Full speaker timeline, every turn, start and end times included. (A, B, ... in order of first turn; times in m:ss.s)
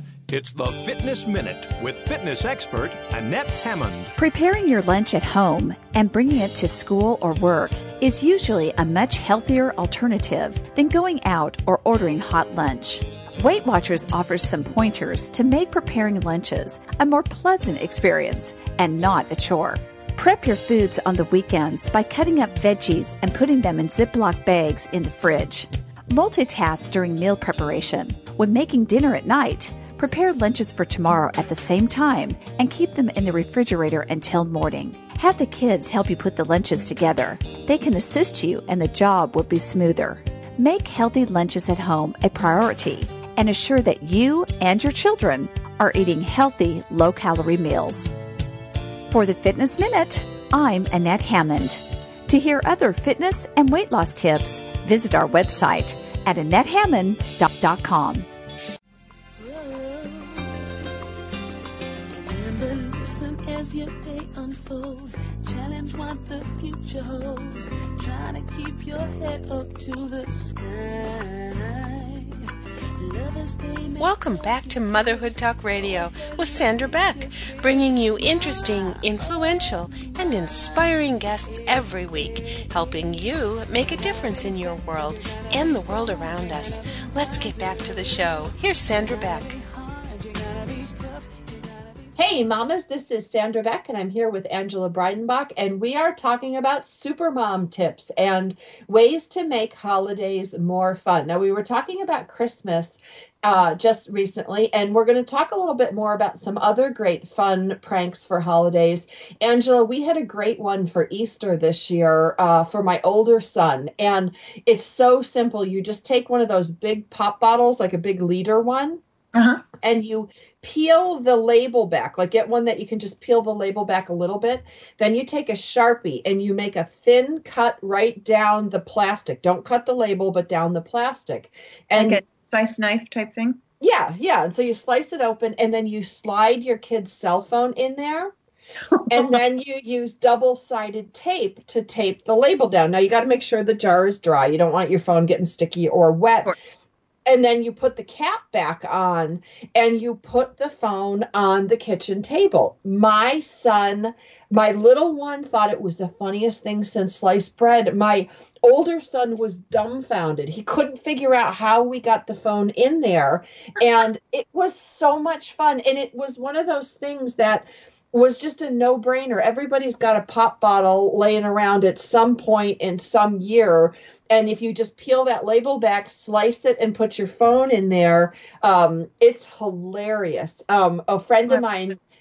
0:00.3-0:04.1 A
0:04.2-0:48.1 B
0:49.1-0:58.3 B
0:59.4-1:00.6 C
1:02.1-1:12.4 C
1:13.0-1:17.7 C
1:14.0-1:29.6 D
1:25.3-1:32.1 C
1:32.2-1:59.0 E
1:59.3-1:59.6 F
1:59.8-2:12.2 E
2:11.9-2:13.6 F
2:13.8-2:18.3 E
2:19.1-2:26.5 E
2:27.3-3:02.0 E